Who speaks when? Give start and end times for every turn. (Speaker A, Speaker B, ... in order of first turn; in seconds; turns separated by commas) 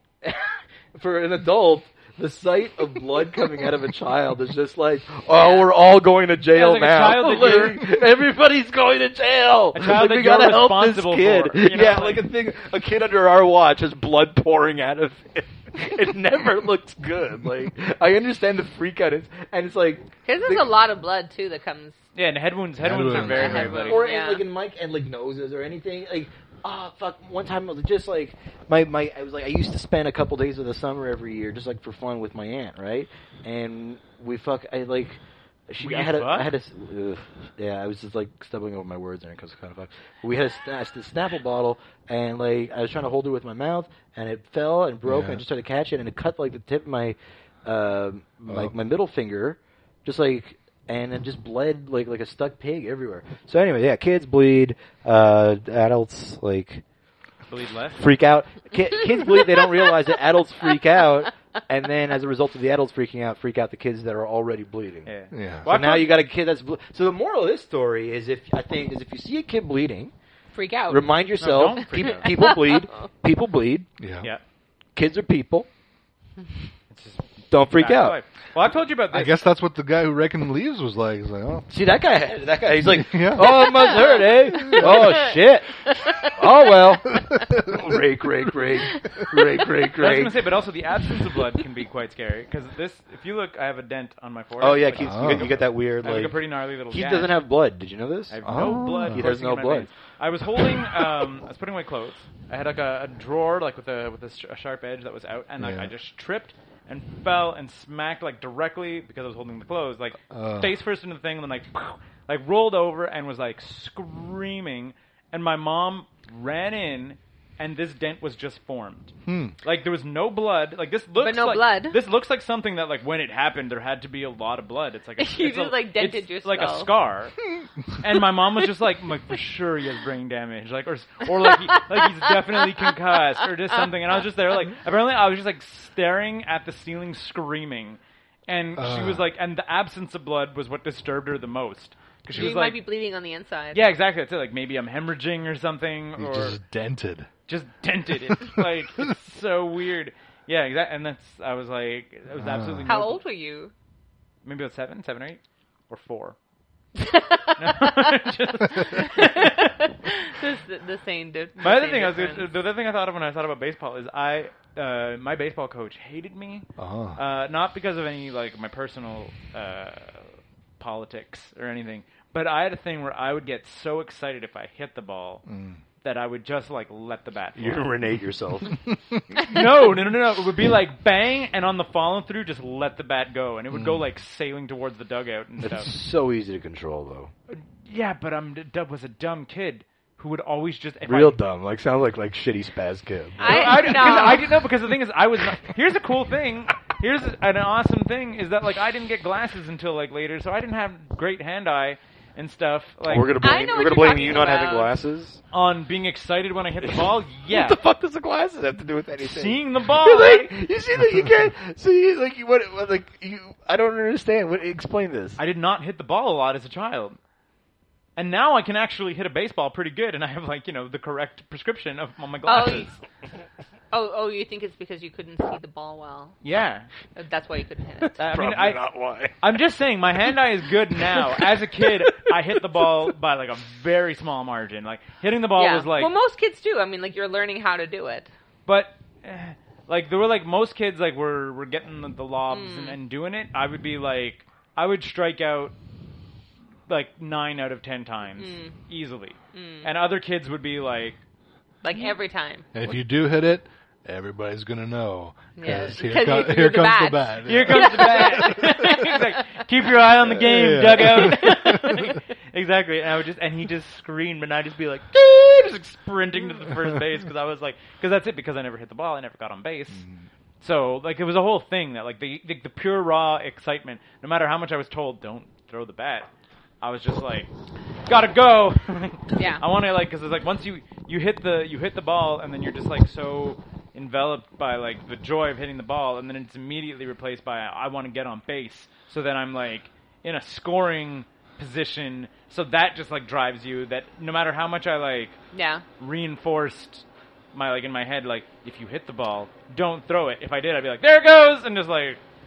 Speaker A: 0.2-20.7, Speaker B: 5.3-5.7, Speaker C: 6.5-7.8, Speaker C: 9.7-12.2, Speaker B: 20.2-22.0, Speaker C: 22.1-24.1, Speaker D: 22.8-23.9, Speaker B: 23.2-24.4, Speaker A: 23.8-56.8, Speaker C: 35.8-36.5, Speaker D: 45.0-45.4, Speaker D: 48.5-48.8, Speaker C: 57.5-58.1, Speaker A: 58.0-65.1, Speaker C: 65.0-66.3, Speaker D: 65.3-65.7, Speaker A: 65.7-70.1, Speaker B: 70.5-71.2, Speaker A: 70.9-73.9, Speaker C: 71.4-72.5, Speaker D: 74.0-74.3, Speaker A: 75.0-75.7, Speaker C: 76.9-79.4, Speaker A: 77.5-78.2, Speaker D: 79.1-81.7, Speaker A: 81.7-90.4, Speaker D: 82.9-85.2, Speaker C: 90.0-97.4, Speaker A: 94.6-98.4, Speaker D: 95.0-95.5, Speaker C: 98.3-127.4, Speaker D: 98.4-99.3, Speaker A: 99.1-99.9, Speaker D: 105.6-105.9, Speaker D: 110.3-110.7, Speaker D: 119.3-119.5, Speaker B: 121.2-122.0, Speaker B: 125.2-126.9, Speaker C: 127.9-142.8, Speaker D: 138.8-139.3, Speaker B: 142.3-143.9, Speaker C: 143.7-146.6, Speaker D: 146.2-147.3, Speaker C: 147.5-153.2, Speaker D: 152.3-153.0, Speaker B: 152.9-153.7, Speaker C: 154.4-156.4, Speaker B: 157.0-157.9, Speaker C: 157.6-159.8, Speaker B: 159.0-162.5, Speaker C: 161.6-175.4, Speaker D: 166.8-167.2, Speaker D: 175.5-175.8, Speaker C: 176.0-177.9, Speaker A: 177.6-178.8, Speaker D: 178.9-179.2, Speaker C: 179.3-185.9, Speaker D: 183.7-184.1, Speaker A: 185.6-187.3, Speaker C: 187.5-191.4, Speaker A: 191.1-194.4, Speaker C: 193.4-203.4, Speaker B: 193.4-194.5, Speaker A: 203.1-205.4, Speaker B: 203.4-204.9, Speaker C: 205.5-207.8, Speaker A: 206.8-215.4, Speaker C: 209.2-210.6, Speaker C: 215.4-217.2, Speaker C: 218.2-222.9, Speaker B: 222.4-223.0, Speaker B: 223.9-226.3, Speaker C: 226.4-226.9, Speaker B: 227.2-228.2, Speaker C: 228.2-228.9, Speaker A: 228.2-229.4, Speaker C: 229.4-236.1, Speaker B: 235.6-238.3, Speaker C: 238.7-245.8, Speaker B: 242.5-243.0, Speaker C: 246.9-251.2, Speaker B: 248.4-248.8, Speaker B: 249.5-249.9, Speaker B: 251.8-252.7, Speaker C: 251.9-252.1, Speaker D: 252.7-259.1, Speaker B: 255.6-259.5, Speaker C: 257.4-270.1, Speaker D: 260.3-261.8, Speaker B: 261.3-262.1, Speaker D: 269.9-270.3, Speaker C: 270.6-276.3, Speaker C: 276.8-277.5, Speaker C: 278.1-295.4, Speaker B: 279.4-279.6, Speaker B: 295.5-295.8, Speaker C: 296.0-302.2